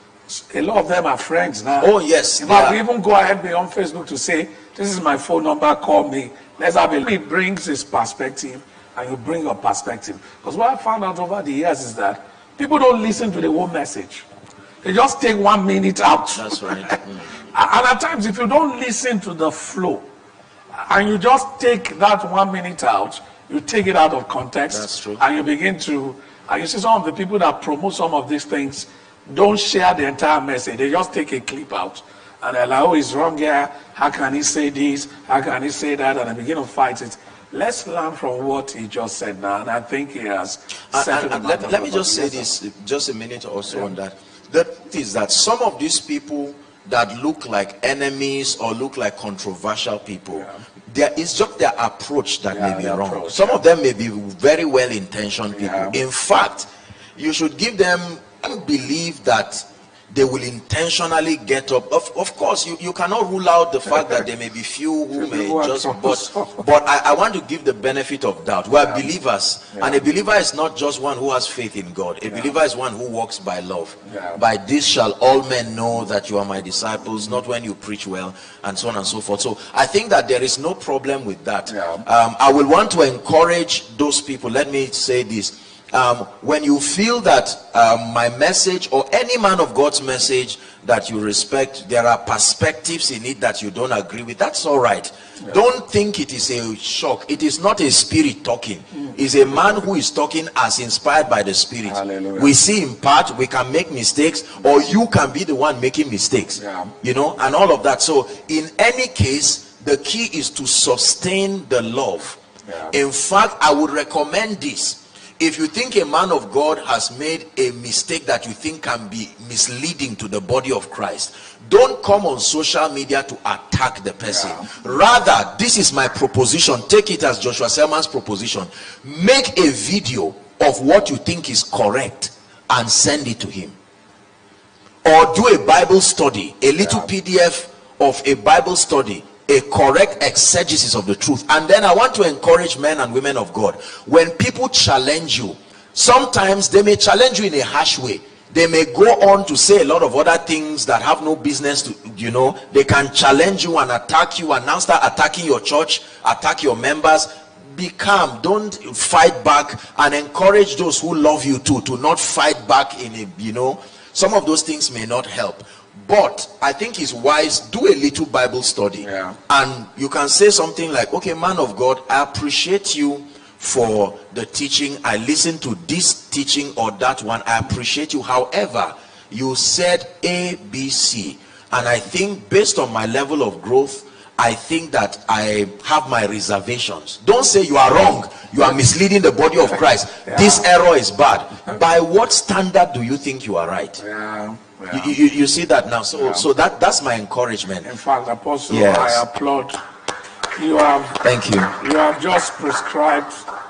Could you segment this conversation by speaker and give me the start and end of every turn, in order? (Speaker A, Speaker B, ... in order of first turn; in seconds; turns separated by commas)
Speaker A: 0.3-14.2, Speaker B: 1.8-2.8, Speaker A: 14.8-20.0, Speaker B: 16.3-17.5, Speaker A: 20.7-42.5, Speaker B: 24.7-25.2, Speaker B: 40.9-112.4, Speaker A: 52.5-53.6, Speaker A: 55.5-56.0, Speaker A: 65.1-66.6, Speaker A: 68.8-69.0, Speaker A: 69.7-70.0, Speaker A: 74.0-74.4, Speaker A: 81.7-82.0, Speaker A: 101.9-102.5, Speaker A: 106.5-106.9, Speaker A: 112.7-112.9, Speaker B: 112.9-133.8, Speaker A: 124.2-124.7, Speaker B: 135.0-194.0, Speaker A: 169.0-169.4, Speaker A: 190.2-190.6, Speaker A: 194.0-195.2, Speaker B: 194.9-197.9, Speaker A: 196.2-196.4, Speaker A: 197.8-199.8, Speaker B: 198.7-199.2, Speaker A: 200.5-203.5, Speaker B: 201.2-201.8